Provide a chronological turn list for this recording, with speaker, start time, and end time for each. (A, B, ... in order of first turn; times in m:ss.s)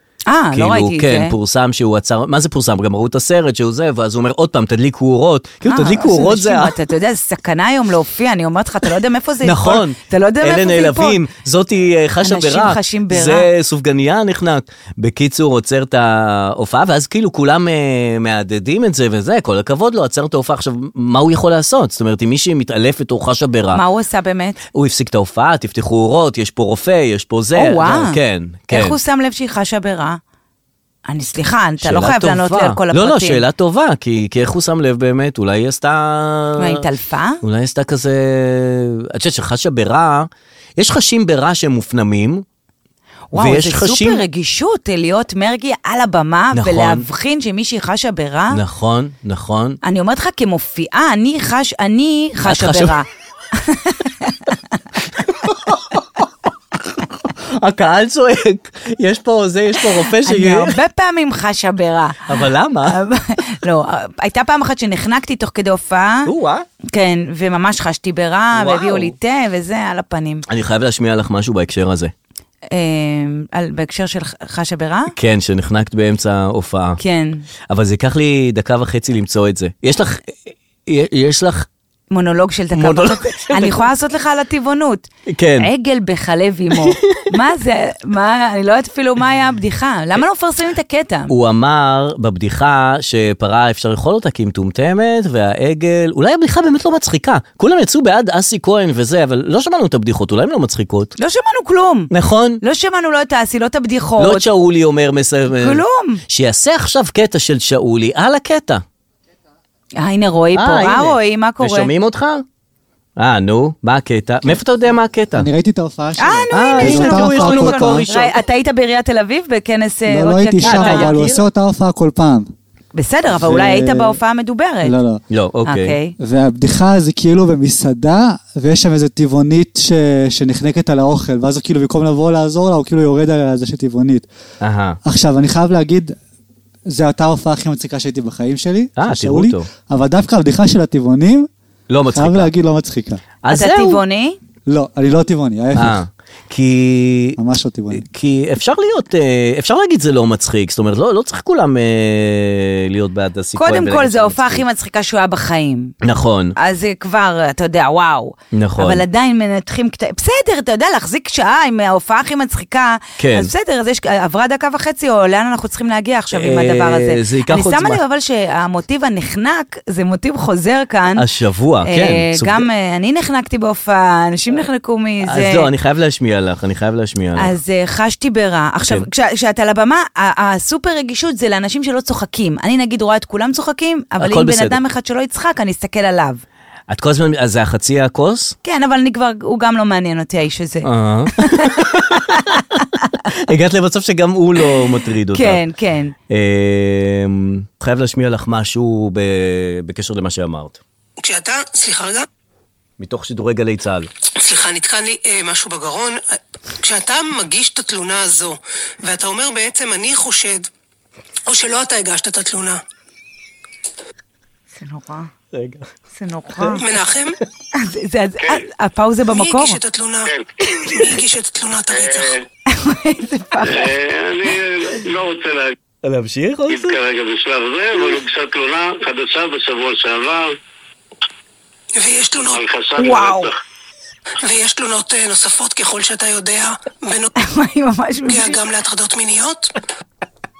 0:00.3-0:01.3 A
0:00.5-0:06.7 B
0:05.6-0:11.2 A
0:09.4-0:23.8 B
0:12.2-0:13.5 A
0:23.7-0:24.6 A
0:24.7-0:29.0 B
0:27.6-0:28.2 A
0:28.7-0:30.2 A
0:31.1-0:33.4 A
0:31.8-0:36.8 B
0:36.6-0:37.4 A
0:37.4-0:42.4 B
0:43.3-0:48.6 A
0:43.3-0:44.2 B
0:46.5-0:47.0 B
0:48.5-0:49.8 B
0:49.8-0:54.4 A
0:52.4-0:53.0 B
0:55.2-0:56.0 B
0:57.0-1:00.8 B
1:00.2-1:06.3 A
1:02.3-1:03.0 B
1:06.2-1:06.6 B
1:06.9-1:10.4 A
1:08.5-1:09.1 B
1:10.5-1:12.1 B
1:12.7-1:15.1 A
1:15.1-1:17.0 B
1:17.0-1:17.4 A
1:17.7-1:21.7 B
1:22.1-1:25.0 A
1:22.7-1:23.8 B
1:25.3-1:25.7 B
1:25.6-1:31.3 A
1:26.7-1:27.2 B
1:31.3-1:41.1 B
1:41.2-1:42.1 A
1:42.1-1:42.6 B
1:42.6-1:44.5 A
1:44.2-1:48.8 B
1:45.5-1:46.2 A
1:50.0-1:51.9 A
1:50.5-1:52.4 B
1:53.2-1:55.5 B
1:55.3-1:58.1 C
1:56.2-2:01.2 A
1:56.5-1:58.4 B
2:00.1-2:02.5 C
2:00.6-2:01.4 B
2:02.9-2:04.9 A
2:03.3-2:04.2 C
2:04.8-2:05.2 C
2:05.3-2:06.0 B
2:05.6-2:06.1 A
2:06.2-2:14.3 C
2:14.6-2:15.0 B
2:15.0-2:16.2 C
2:16.9-2:21.5 C
2:19.0-2:19.7 B
2:21.9-2:22.5 B
2:22.1-2:23.2 C
2:23.4-2:24.0 B
2:23.5-2:24.4 A
2:24.7-2:26.0 C
2:25.7-2:27.4 B
2:27.4-2:28.0 C
2:27.9-2:34.6 B
2:33.6-2:35.9 A
2:36.0-2:36.5 B
2:36.6-2:51.2 A
2:38.5-2:39.0 B
2:43.2-2:43.5 B
2:46.3-2:48.0 B
2:51.2-2:52.7 B
2:51.8-2:55.7 A
2:55.2-2:57.5 B
2:57.4-3:06.4 A
3:04.2-3:04.8 B
3:06.9-3:08.6 B
3:08.6-3:13.2 A
3:10.8-3:12.6 B
3:13.3-3:15.6 B
3:15.3-3:16.1 A
3:16.3-3:20.8 B
3:21.2-3:22.2 D
3:23.0-3:24.1 B
3:24.4-3:26.2 D
3:26.8-3:30.7 D
3:31.5-3:32.8 D
3:34.8-3:35.3 A
3:35.5-3:35.9 B
3:36.2-3:36.8 A
3:36.8-3:37.4 D
3:37.7-3:39.8 A
3:39.3-3:40.3 D
3:40.3-3:40.7 E
3:40.8-3:41.0 A
3:40.8-3:42.4 D
3:41.9-3:42.4 E
3:42.7-3:43.9 A
3:43.6-3:45.7 E
3:46.0-3:47.0 B
3:46.7-3:50.5 E
3:52.0-3:52.6 D
3:52.5-3:53.5 E
3:53.0-3:53.5 A
3:54.4-3:57.3 D
3:57.4-3:58.6 A
3:58.3-3:59.7 D